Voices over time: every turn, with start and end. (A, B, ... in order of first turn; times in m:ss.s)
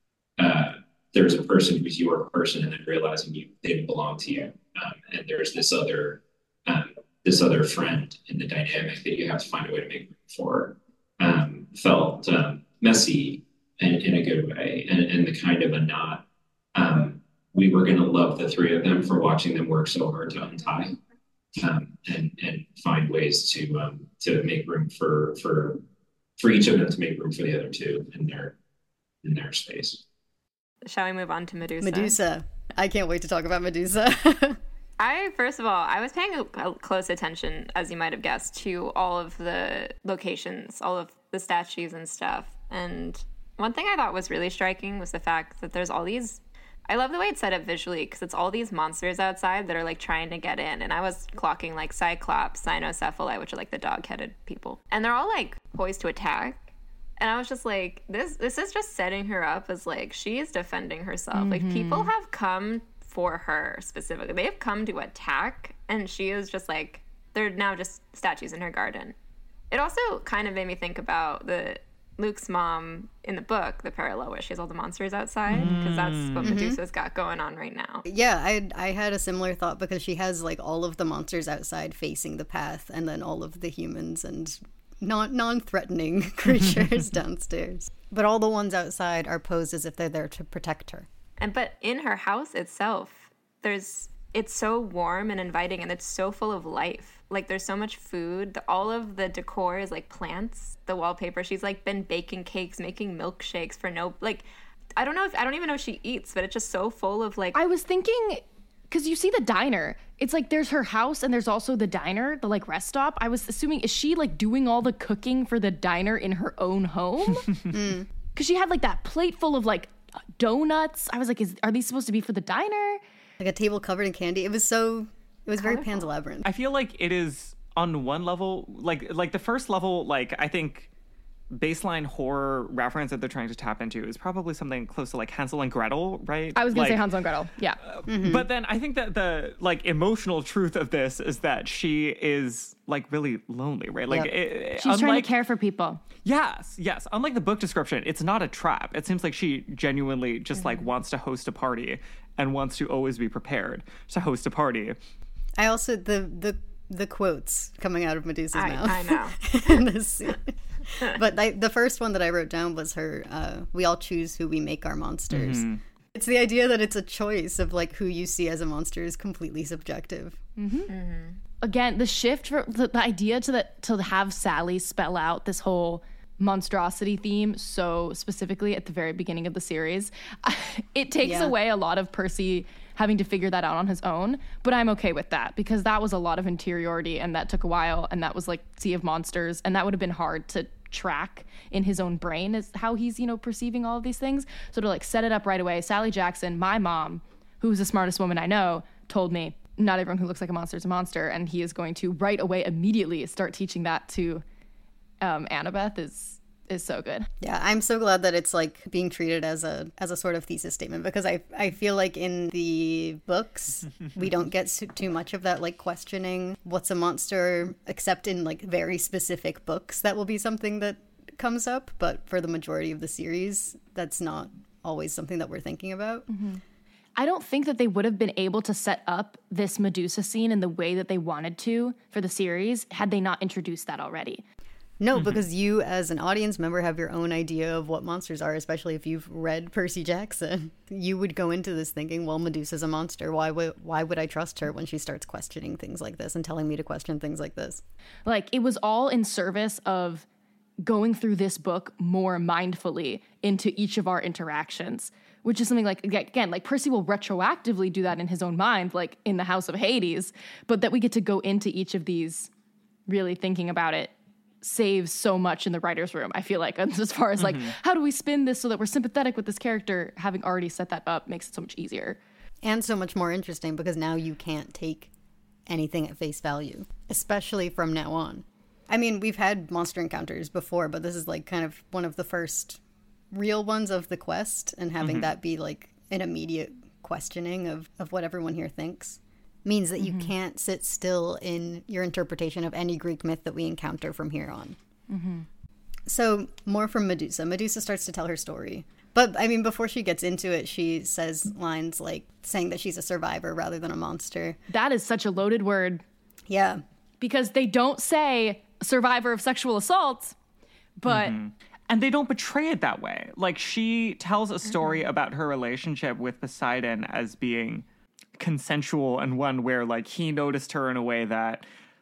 0:00.4-0:21.0 A
0:21.5-0:25.8 A
0:26.4-0:28.6 A
0:29.2-0:30.0 A
0:30.8-0:32.2 B
0:31.8-0:34.6 C
0:35.0-0:56.6 B
0:57.2-1:09.1 B
1:01.3-1:02.1 D
1:09.7-1:18.0 B
1:15.5-1:16.6 E
1:16.4-1:16.8 C
1:18.0-1:31.1 C
1:31.4-1:47.6 B
1:47.5-1:57.5 D
1:57.7-1:58.1 C
1:58.3-2:03.0 D
2:03.4-2:06.5 C
2:05.6-2:06.0 D
2:06.4-2:10.9 E
2:11.5-2:17.1 E
2:16.5-2:17.8 D
2:17.8-2:25.3 E
2:18.1-2:18.5 C
2:24.8-2:26.0 D
2:26.2-2:35.0 E
2:35.6-2:50.4 C
2:38.5-2:39.4 B
2:45.3-2:45.8 E
2:50.6-2:50.9 D
2:50.9-2:51.4 B
2:51.6-3:24.4 D
3:01.2-3:01.5 C
3:25.2-3:27.3 D
3:27.4-3:46.3 C
3:46.3-3:46.6 D
3:47.2-3:54.4 D
3:55.0-4:07.8 C
3:55.1-3:55.4 E
4:08.2-4:10.2 D
4:10.8-4:22.5 D
4:23.1-4:32.2 D
4:27.4-4:27.7 E
4:32.6-4:35.1 C
4:35.7-4:54.8 C
4:45.0-4:45.3 E
4:50.0-4:50.3 D
4:55.1-4:55.5 D
4:56.0-5:04.6 C
5:04.7-5:06.0 D
5:06.5-5:06.8 C
5:07.2-5:10.3 D
5:11.0-5:11.4 D
5:11.1-5:17.8 E
5:14.7-5:15.0 B
5:18.4-5:21.6 E